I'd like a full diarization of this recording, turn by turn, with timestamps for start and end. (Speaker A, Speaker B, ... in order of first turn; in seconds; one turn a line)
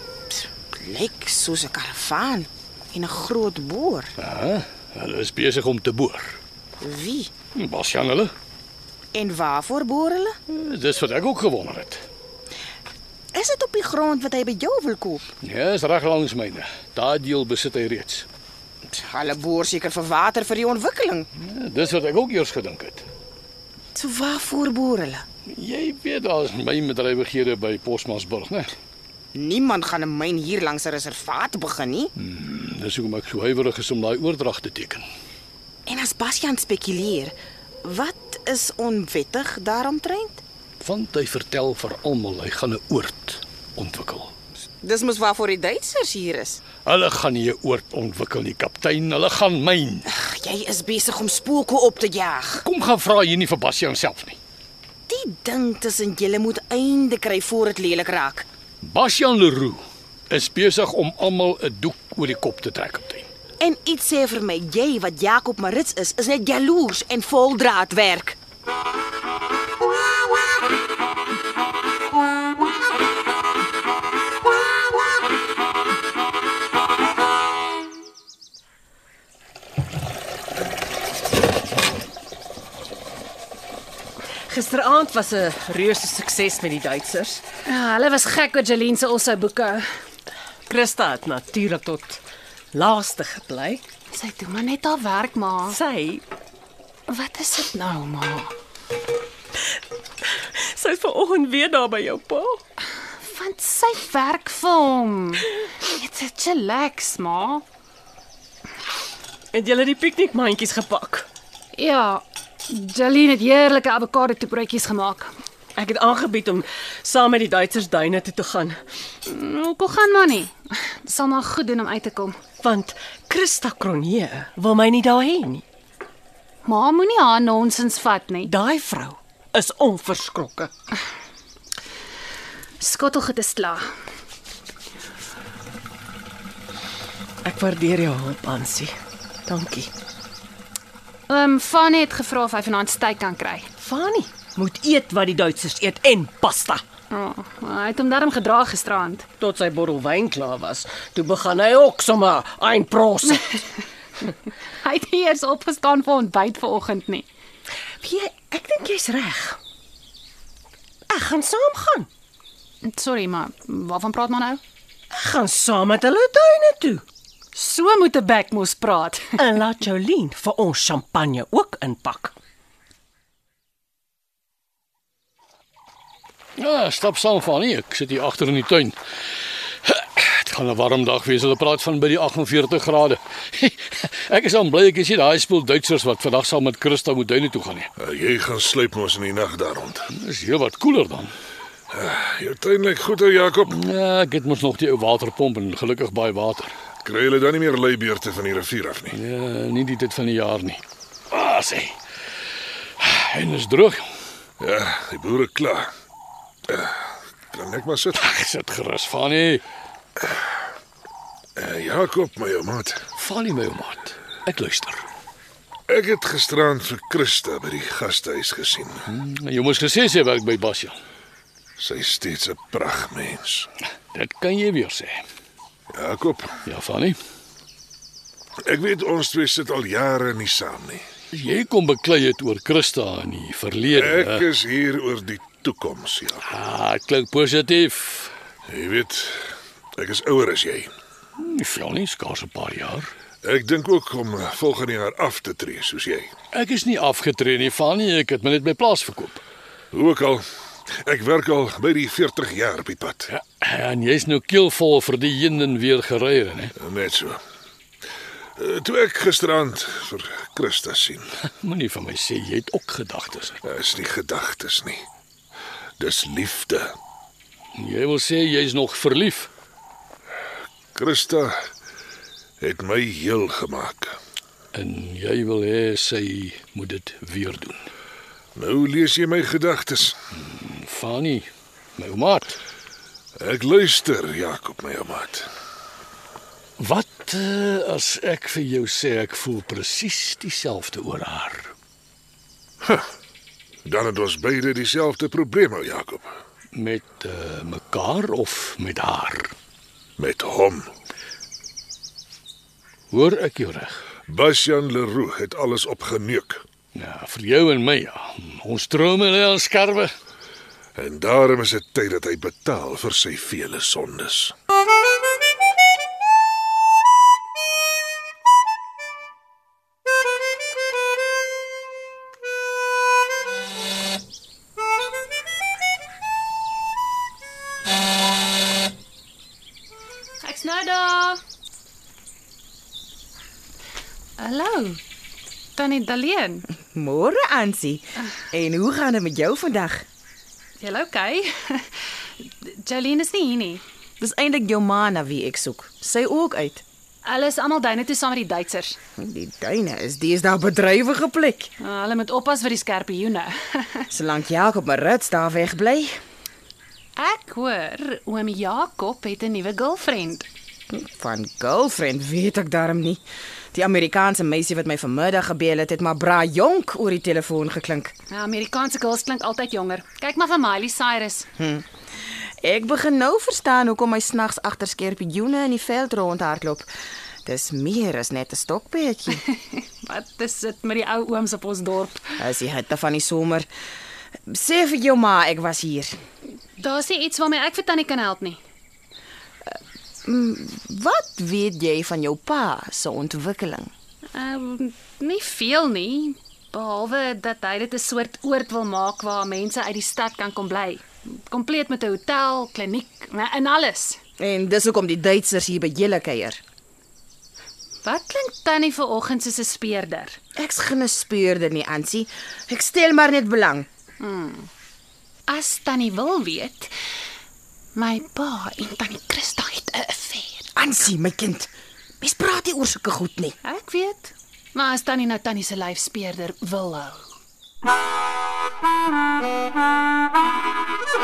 Speaker A: 0.4-4.1
Speaker B: 4.2-6.4
Speaker A: 6.8-7.3
Speaker B: 7.5-8.3
Speaker A: 9.1-10.3
Speaker B: 10.5-12.0
Speaker A: 13.3-15.2
Speaker B: 15.4-18.2
Speaker A: 18.9-21.3
Speaker B: 21.4-23.0
Speaker A: 23.9-25.2
Speaker B: 25.5-28.7
Speaker A: 29.3-32.1
Speaker B: 32.2-35.0
Speaker A: 35.9-40.4
Speaker B: 40.8-44.3
Speaker A: 44.8-46.6
Speaker B: 46.9-50.0
Speaker A: 50.0-52.6
Speaker B: 52.6-54.4
Speaker A: 55.1-58.5
Speaker B: 58.8-63.3
Speaker A: 63.6-68.4
Speaker C: 84.5-87.4
Speaker D: 87.7-89.8
Speaker C: 90.7-92.2
Speaker C: 92.7-93.8
Speaker D: 94.1-95.8
Speaker C: 95.7-96.2
Speaker D: 97.1-98.5
Speaker C: 100.5-102.6
Speaker D: 103.2-107.6
Speaker C: 109.5-111.3
Speaker D: 111.7-115.3
Speaker C: 115.8-118.8
Speaker D: 119.2-122.3
Speaker C: 122.6-125.6
Speaker D: 126.6-128.5
Speaker C: 128.4-130.7
Speaker D: 132.8-133.8
Speaker C: 137.4-138.9
Speaker C: 139.5-139.9
Speaker D: 141.3-143.7
Speaker C: 143.8-146.8
Speaker D: 147.1-149.3
Speaker C: 149.4-153.5
Speaker D: 154.8-157.3
Speaker C: 158.0-159.6
Speaker C: 161.1-162.1
Speaker D: 162.8-164.6
Speaker C: 165.1-167.0
Speaker D: 167.5-169.3
Speaker C: 169.4-172.3
Speaker B: 176.6-178.9
Speaker B: 179.8-187.9
Speaker E: 188.0-190.1
Speaker B: 190.1-191.3
Speaker E: 191.9-193.8
Speaker B: 193.7-196.7
Speaker E: 197.0-199.2
Speaker B: 199.1-201.9
Speaker B: 203.0-204.0
Speaker E: 204.6-205.9
Speaker E: 206.7-208.3
Speaker B: 208.1-209.6
Speaker E: 211.6-213.0
Speaker B: 213.2-215.0
Speaker E: 215.9-219.0
Speaker B: 219.1-220.9
Speaker E: 221.8-223.7
Speaker B: 224.1-225.2
Speaker E: 225.9-226.5
Speaker B: 226.6-227.2
Speaker E: 228.7-231.0
Speaker B: 231.3-234.5
Speaker E: 233.9-236.4
Speaker B: 236.4-238.3
Speaker E: 238.7-240.9
Speaker B: 241.4-243.1
Speaker E: 243.4-246.3
Speaker B: 246.5-249.4
Speaker E: 249.9-250.4
Speaker E: 251.0-253.3
Speaker B: 253.3-256.7
Speaker E: 256.8-257.4
Speaker E: 258.6-261.3
Speaker B: 261.5-263.6
Speaker E: 263.6-265.0
Speaker E: 266.0-266.9
Speaker B: 267.8-269.5
Speaker E: 270.9-271.6
Speaker E: 272.6-274.2
Speaker B: 274.7-277.8
Speaker E: 278.5-280.1
Speaker B: 280.4-282.6
Speaker E: 283.4-285.5
Speaker B: 286.8-291.7
Speaker E: 293.8-296.3
Speaker B: 296.7-299.5
Speaker E: 300.2-300.9
Speaker B: 303.1-304.0
Speaker E: 304.3-306.6
Speaker B: 306.9-310.1
Speaker E: 310.9-314.5
Speaker D: 330.4-331.4
Speaker D: 334.4-335.0
Speaker D: 335.7-336.6
Speaker A: 336.9-340.1
Speaker D: 340.8-342.0
Speaker D: 342.6-343.8
Speaker A: 344.2-346.8
Speaker D: 347.2-348.9
Speaker A: 349.2-351.7
Speaker D: 351.8-354.1
Speaker A: 354.1-356.2
Speaker D: 357.2-360.4
Speaker A: 360.9-363.2
Speaker A: 363.7-368.1
Speaker D: 368.3-371.5
Speaker A: 371.6-371.8
Speaker A: 372.4-376.9
Speaker A: 377.4-379.4
Speaker D: 379.5-382.3
Speaker A: 382.4-383.7
Speaker A: 384.5-386.2
Speaker D: 386.8-388.6
Speaker A: 390.2-393.9
Speaker D: 394.3-404.2
Speaker A: 404.4-406.6
Speaker D: 408.0-410.4
Speaker A: 410.6-413.9
Speaker D: 414.2-414.7
Speaker D: 415.5-416.9
Speaker D: 417.9-420.7
Speaker A: 420.8-423.6
Speaker D: 423.6-427.3